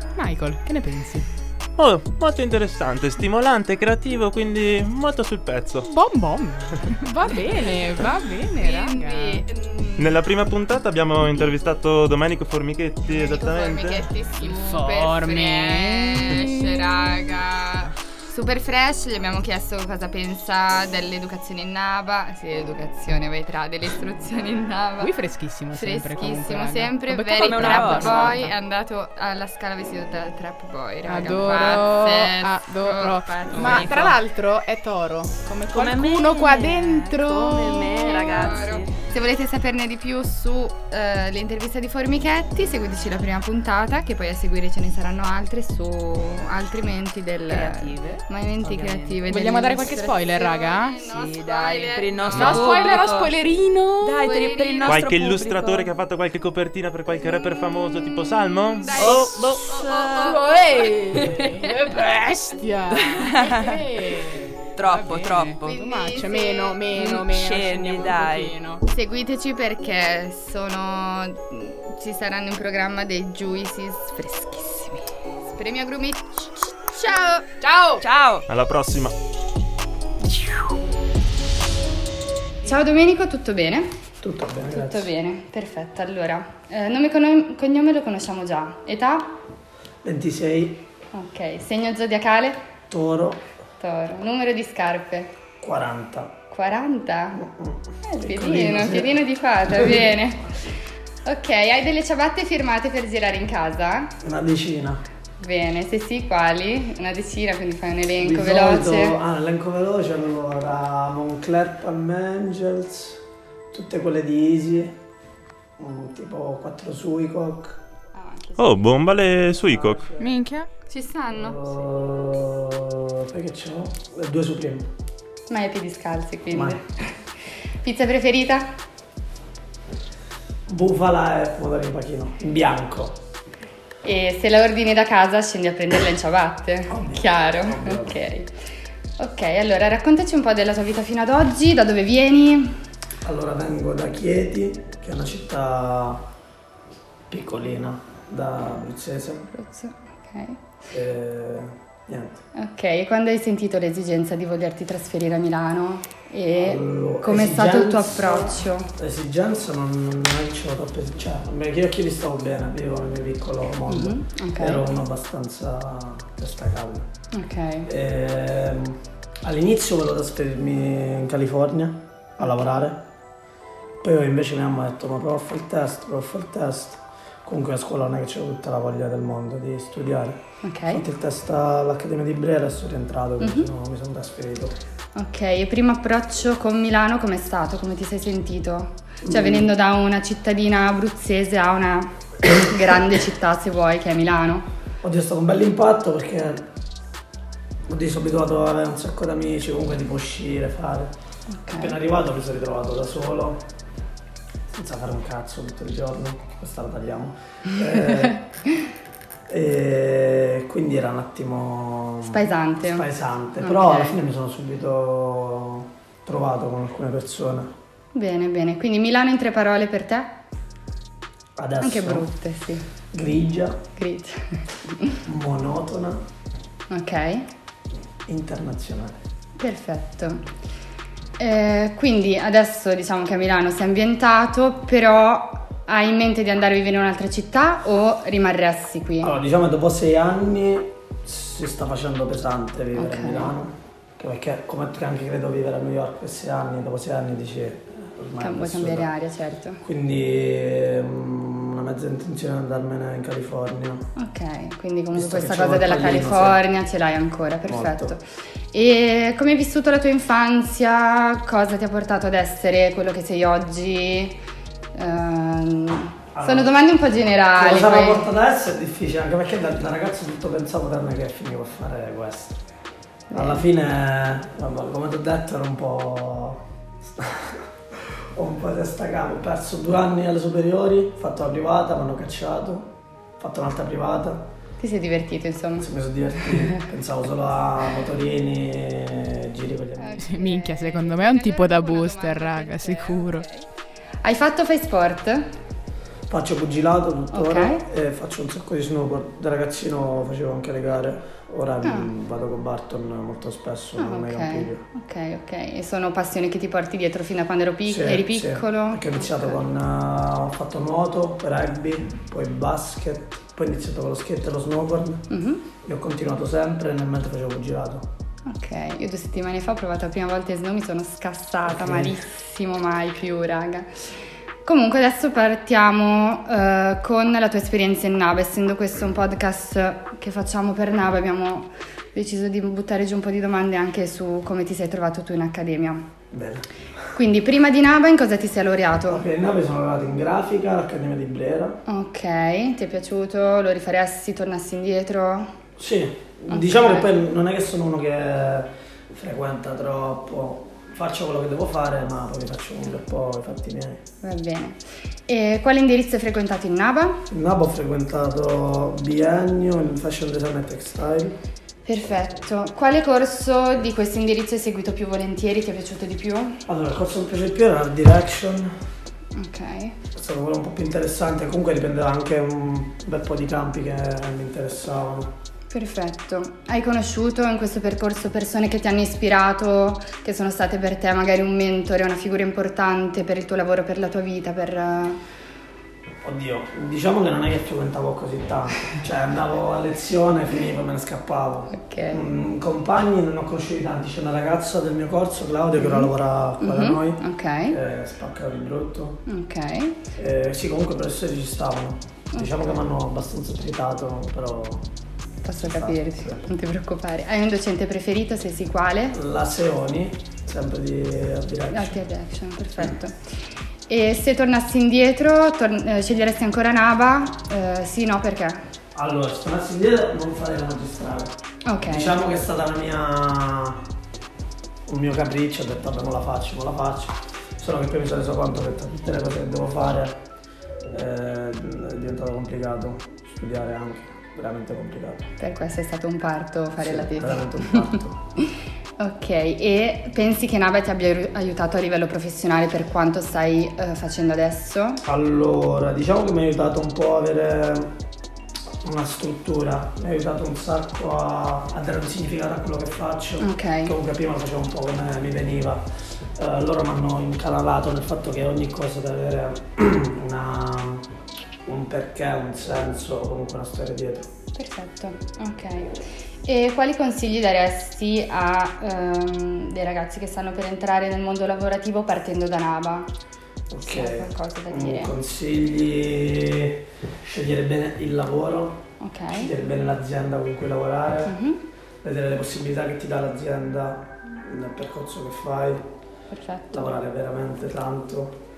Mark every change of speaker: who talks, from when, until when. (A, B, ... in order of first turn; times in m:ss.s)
0:00.2-0:01.3 A
0:01.8-0:05.9 B
0:05.9-0:09.4 A
0:08.6-0:10.2 C
0:10.0-0:14.0 B
0:13.1-0:25.1 C
0:14.4-0:16.9 A
0:25.0-0:28.5 A
0:25.7-0:34.0 C
0:27.3-0:28.4 D
0:31.1-0:38.5 A
0:33.5-0:34.2 D
0:35.4-0:39.0 D
0:38.0-0:53.1 C
0:47.5-0:49.2 D
0:49.3-0:51.1 A
0:51.1-0:53.3 D
0:52.3-0:54.3 A
0:54.0-0:55.9 D
0:54.2-0:55.1 C
0:54.8-0:59.7 B
0:58.8-1:00.4 C
0:59.0-1:00.4 D
1:00.1-1:08.8 A
1:02.9-1:03.8 D
1:04.7-1:05.8 D
1:05.6-1:06.8 C
1:06.9-1:08.5 D
1:08.8-1:17.6 C
1:17.6-1:18.0 A
1:18.0-1:18.5 D
1:18.5-1:19.1 B
1:22.6-1:24.0 C
1:24.2-1:25.1 E
1:24.7-1:29.3 C
1:30.0-1:30.8 E
1:31.1-1:32.6 C
1:32.9-1:33.4 E
1:33.8-1:35.3 C
1:35.6-1:36.4 E
1:36.5-1:37.5 C
1:37.4-1:40.3 E
1:38.0-1:40.6 C
1:41.2-1:44.2 C
1:44.2-1:45.0 E
1:45.4-1:49.2 C
1:48.2-1:55.0 E
1:55.8-1:57.8 E
1:58.1-1:59.1 C
1:58.6-2:00.1 B
1:59.6-2:00.3 E
2:00.2-2:00.7 A
2:00.9-2:01.7 C
2:01.3-2:04.9 E
2:05.5-2:07.2 C
2:06.5-2:06.8 E
2:07.8-2:08.7 C
2:10.7-2:13.2 E
2:14.0-2:18.5 C
2:16.9-2:18.2 E
2:19.2-2:22.8 C
2:23.2-2:26.2 E
2:27.3-2:29.5 E
2:29.5-2:30.6 C
2:30.9-2:32.4 E
2:32.5-2:38.9 C
2:36.6-2:47.1 E
2:43.9-2:44.9 C
2:47.3-2:47.9 C
2:47.8-2:53.0 E
2:54.0-3:04.8 E
3:00.6-3:01.0 C
3:03.4-3:03.7 C
3:05.1-3:14.7 C
3:09.2-3:09.7 E
3:15.0-3:16.7 E
3:17.9-3:21.1 E
3:21.5-3:21.9 C
3:21.7-3:23.6 E
3:24.7-3:28.4 E
3:28.0-3:28.4 C
3:29.5-3:37.7 E
3:32.2-3:33.1 C
3:33.6-3:34.2 C
3:38.1-3:40.4 C
3:41.6-3:42.3 E
3:41.8-3:42.9 C
3:43.1-3:43.8 E
3:44.0-3:45.2 C
3:45.2-3:46.2 E
3:46.9-3:47.5 C
3:48.2-3:49.2 E
3:49.6-3:50.5 C
3:51.4-3:59.3 C
3:59.2-4:09.1 E
4:02.9-4:03.5 C
4:08.4-4:09.8 C
4:09.8-4:14.1 E
4:14.2-4:24.4 C
4:15.1-4:16.6 E
4:17.7-4:18.2 E
4:24.9-4:28.3 C
4:26.3-4:26.8 E
4:27.5-4:32.6 E
4:33.3-4:33.6 C
4:33.3-4:44.5 E
4:44.8-4:45.9 C
4:45.8-4:50.2 E
4:46.4-4:46.8 C
4:50.0-4:53.7 C
4:50.2-4:53.4 A
4:54.2-4:55.5 C
4:56.3-5:04.8 E
4:57.3-4:57.8 C
5:01.8-5:02.1 C
5:04.0-5:09.6 C
5:07.9-5:15.3 E
5:15.3-5:15.6 C
5:15.8-5:18.1 E
5:18.4-5:24.0 C
5:21.6-5:22.2 E
5:24.6-5:36.1 C
5:36.3-5:36.7 E
5:37.1-5:39.2 C
5:39.1-5:41.8 E
5:41.9-5:45.5 C
5:45.8-5:54.0 E
5:46.5-5:47.1 C
5:54.2-5:57.2 C
5:57.3-6:01.4 E
6:01.8-6:06.6 C
6:06.6-6:08.7 E
6:09.3-6:10.0 C
6:10.1-6:15.3 E
6:15.7-6:25.2 C
6:26.2-6:39.2 E
6:31.7-6:32.2 C
6:35.8-6:37.8 C
6:39.2-6:40.0 C
6:40.1-6:44.9 E
6:42.3-6:42.7 C
6:45.4-6:49.2 C
6:45.6-6:46.4 E
6:49.1-6:52.0 E
6:51.7-6:53.2 C
6:53.9-6:58.6 C
6:58.9-7:03.8 E
7:01.6-7:02.2 C
7:04.8-7:10.2 E
7:10.9-7:15.3 E
7:15.4-7:25.0 C
7:16.8-7:18.2 E
7:25.0-7:27.9 E
7:28.8-7:35.8 E
7:33.4-7:33.9 C
7:36.3-7:41.1 E
7:41.6-7:44.3 E
7:44.5-7:53.1 C
7:53.7-8:01.3 E
7:53.8-7:55.1 C
7:59.0-7:59.5 C
8:01.2-8:01.6 C
8:02.0-8:05.8 E
8:06.3-8:06.8 C
8:06.7-8:08.4 E